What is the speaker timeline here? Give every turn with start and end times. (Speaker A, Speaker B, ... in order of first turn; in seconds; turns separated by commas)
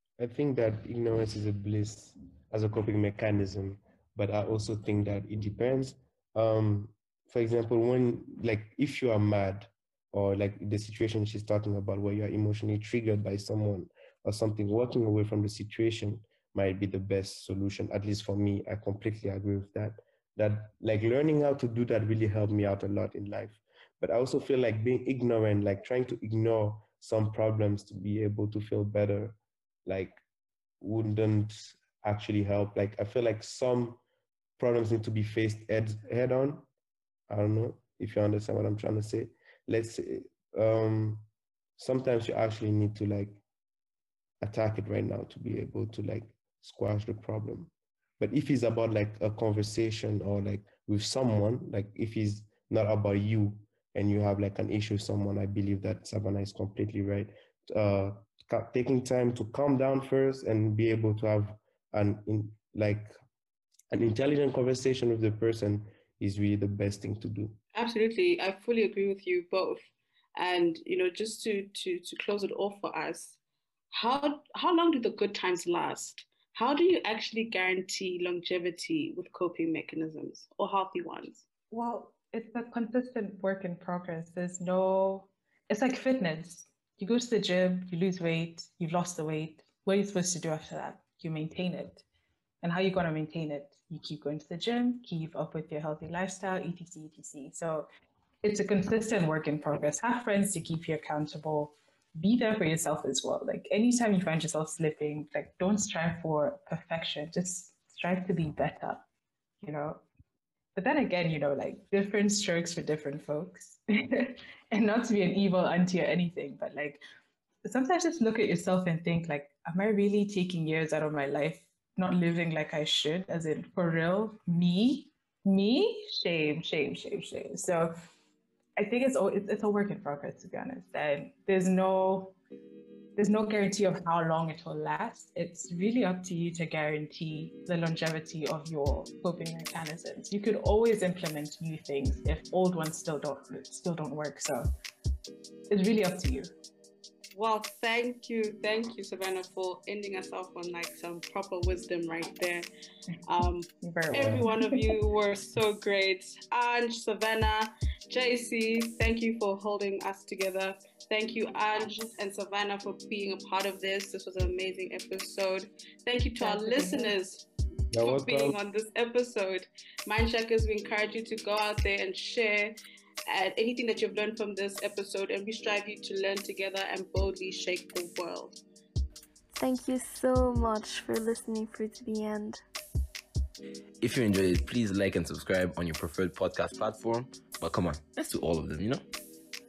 Speaker A: 0.2-30.2, Speaker A: 30.8-34.0, Speaker A: 34.6-36.7, Speaker A: 37.3-43.4, Speaker A: 44.4-63.1, Speaker A: 63.9-67.6, Speaker B: 67.8-69.8, Speaker B: 70.4-73.4, Speaker B: 73.9-81.5, Speaker C: 81.7-92.0, Speaker C: 92.6-97.9, Speaker C: 98.4-109.0, Speaker C: 109.6-110.0, Speaker C: 110.8-117.0, Speaker C: 117.7-128.0, Speaker C: 128.8-132.3, Speaker C: 133.2-144.7, Speaker C: 145.7-146.5, Speaker B: 147.3-152.7, Speaker B: 153.3-167.5, Speaker C: 153.8-154.8, Speaker C: 166.4-167.2, Speaker A: 167.9-168.6, Speaker B: 168.0-178.6, Speaker D: 179.6-182.6, Speaker E: 184.0-189.1